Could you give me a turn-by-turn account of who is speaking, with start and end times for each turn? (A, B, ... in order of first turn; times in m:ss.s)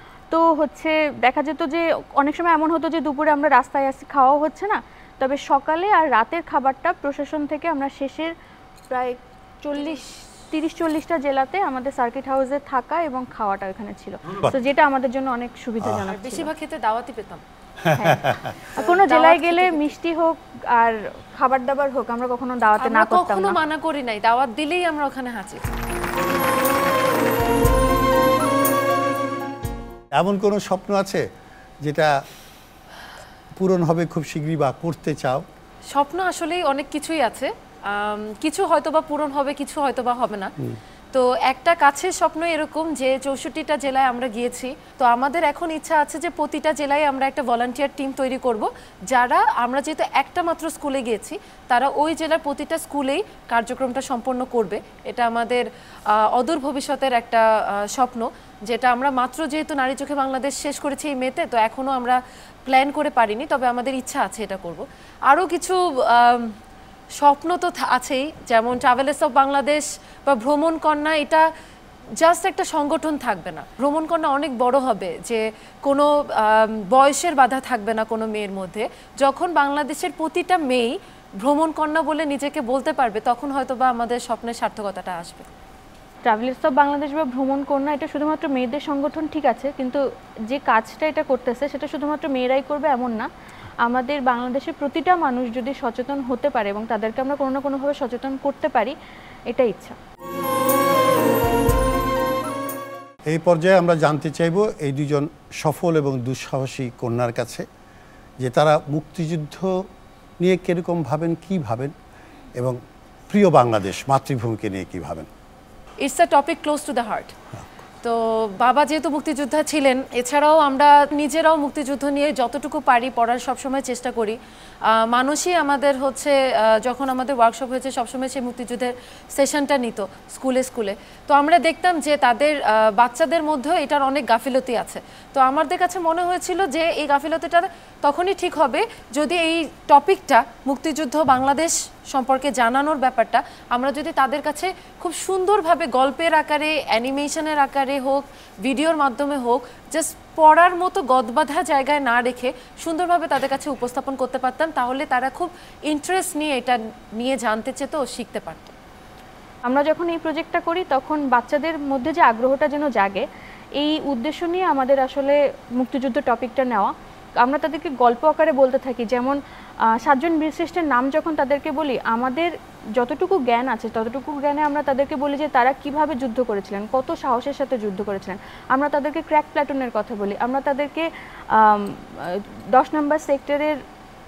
0:00.3-0:08.3 A
0:08.9-0:16.5 A
0:09.8-0:10.0 B
0:15.8-0:16.1 C
0:16.2-0:17.4 B
0:17.8-0:18.6 C
0:18.0-0:23.6 A
0:18.8-0:19.9 B
0:22.8-0:25.6 B
0:30.2-0:31.3 C
0:31.8-0:32.1 C
0:33.6-0:35.5 C
0:35.9-0:40.5 B
0:41.1-1:06.6 B
1:07.2-1:11.5 B
1:12.2-1:25.5 B
1:26.2-1:33.3 A
1:33.8-1:39.0 A
1:39.5-1:40.0 A
1:43.3-1:47.6 C
1:48.4-1:49.7 C
1:50.4-1:51.9 C
1:53.3-1:55.3 C
1:56.0-1:57.3 B
1:58.0-2:04.4 B
2:04.9-2:38.7 B
2:39.7-2:43.2 A
2:43.8-2:49.4 A
2:50.0-3:03.8 A